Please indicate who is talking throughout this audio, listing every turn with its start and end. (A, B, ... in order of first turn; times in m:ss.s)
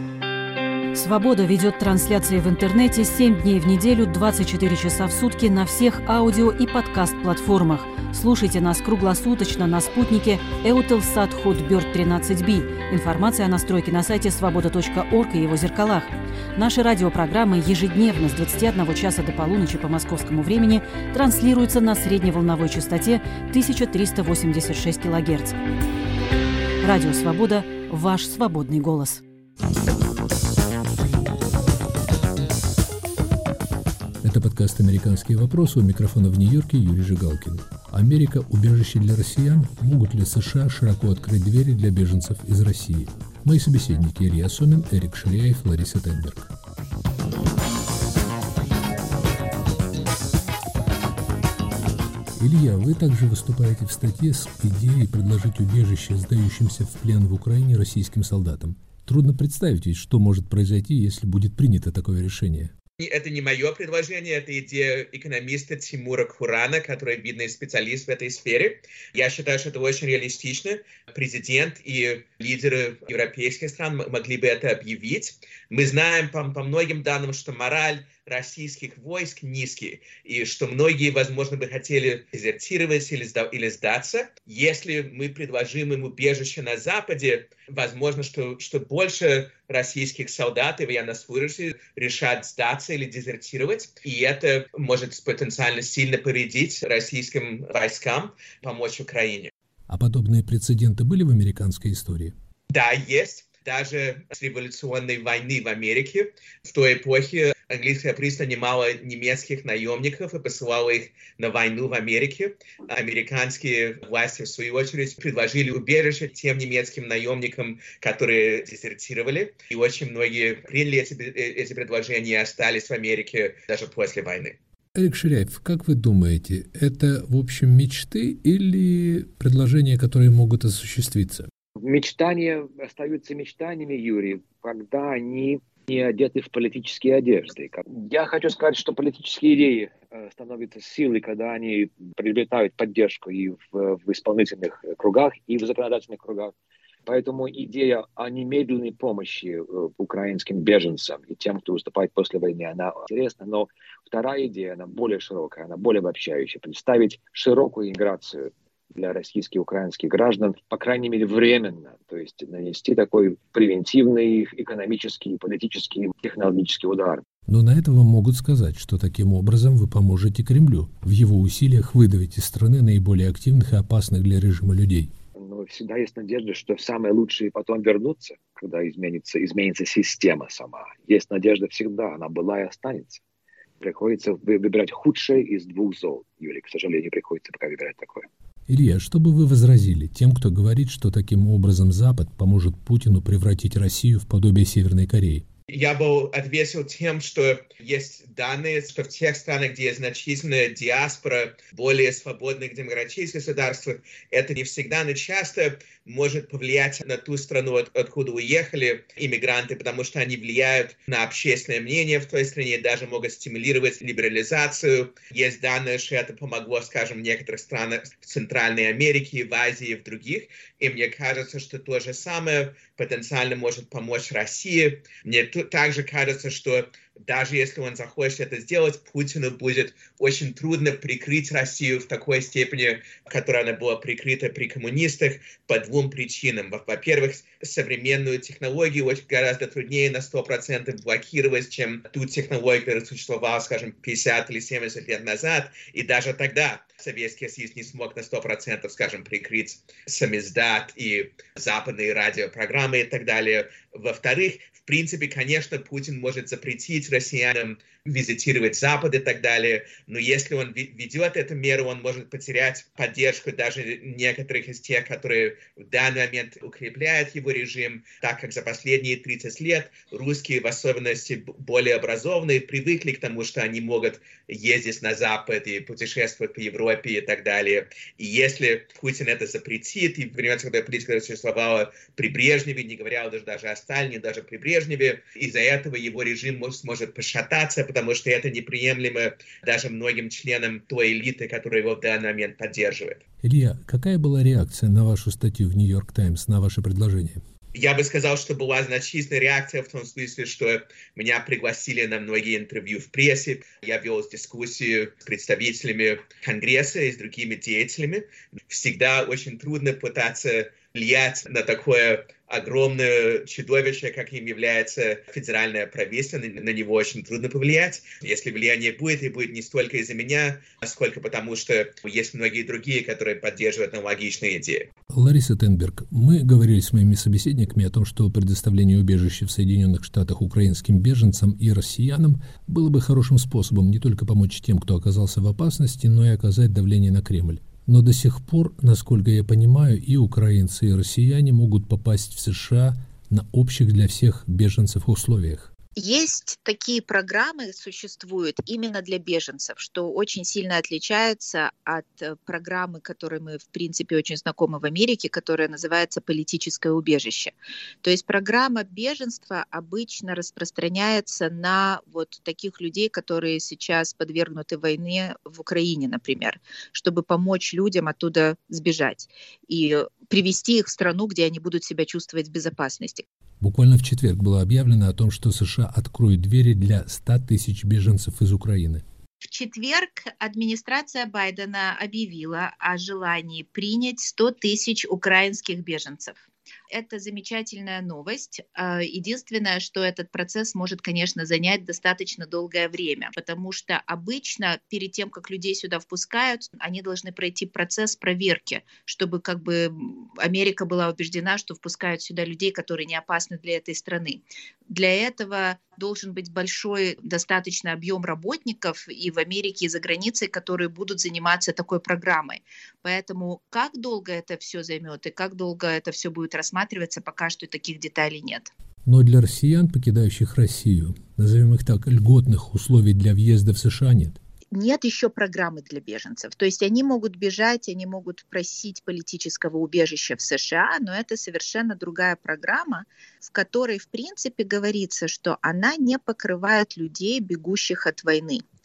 0:00.9-0:25.6 A
0:26.8-0:29.2 A
0:34.2-0:46.5 B
0:52.4-1:02.7 B
1:03.0-1:39.5 C
1:39.9-1:42.3 B
1:42.7-2:04.6 C
2:04.9-2:11.5 B
2:11.8-2:26.5 D
2:27.0-2:47.2 D
2:47.5-2:55.1 B
2:55.4-3:03.2 D
3:03.8-3:08.3 D
3:08.7-3:15.4 B
3:15.7-4:53.2 C
4:53.4-4:57.4 B
4:57.7-5:24.9 C
5:25.1-5:45.7 B
5:46.0-6:13.2 E
6:13.6-6:19.0 B
6:19.4-6:58.7 E
6:59.0-7:04.4 B
7:04.7-7:18.6 E